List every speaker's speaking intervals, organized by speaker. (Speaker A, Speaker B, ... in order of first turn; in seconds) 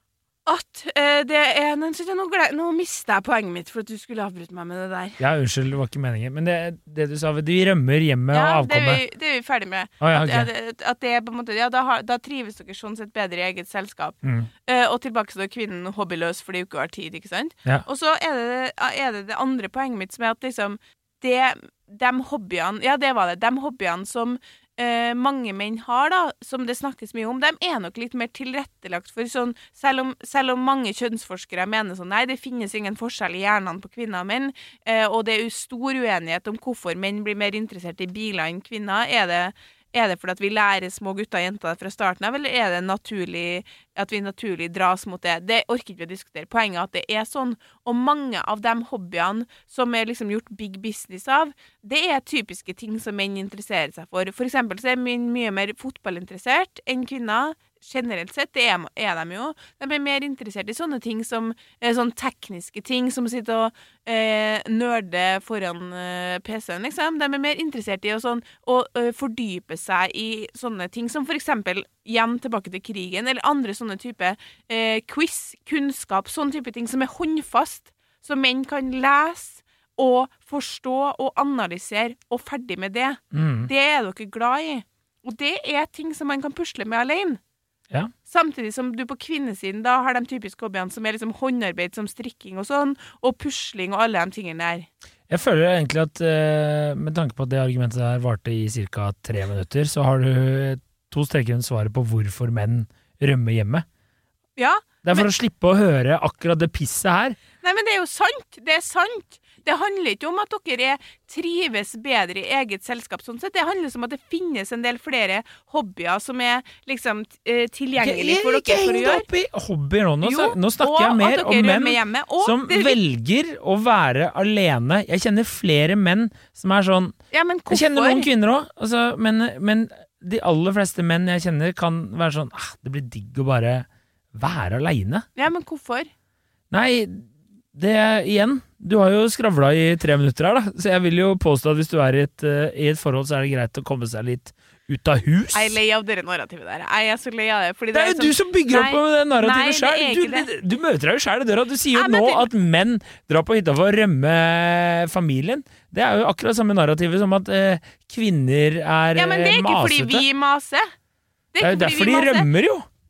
Speaker A: 0.5-5.2, 8.3-87.4, 88.2-94.9, 104.6-105.3, 107.6-119.3, 120.2-123.0, 127.3-128.3, 135.3-136.1, 145.5-150.5, 151.9-152.5, 159.1-160.9, 161.5-162.5
Speaker B: 5.2-9.0, 10.0-10.5, 14.2-14.5, 83.3-83.7, 95.3-103.8, 105.0-107.4, 118.0-127.1, 127.7-135.3, 136.7-145.8, 147.9-160.2, 161.6-162.9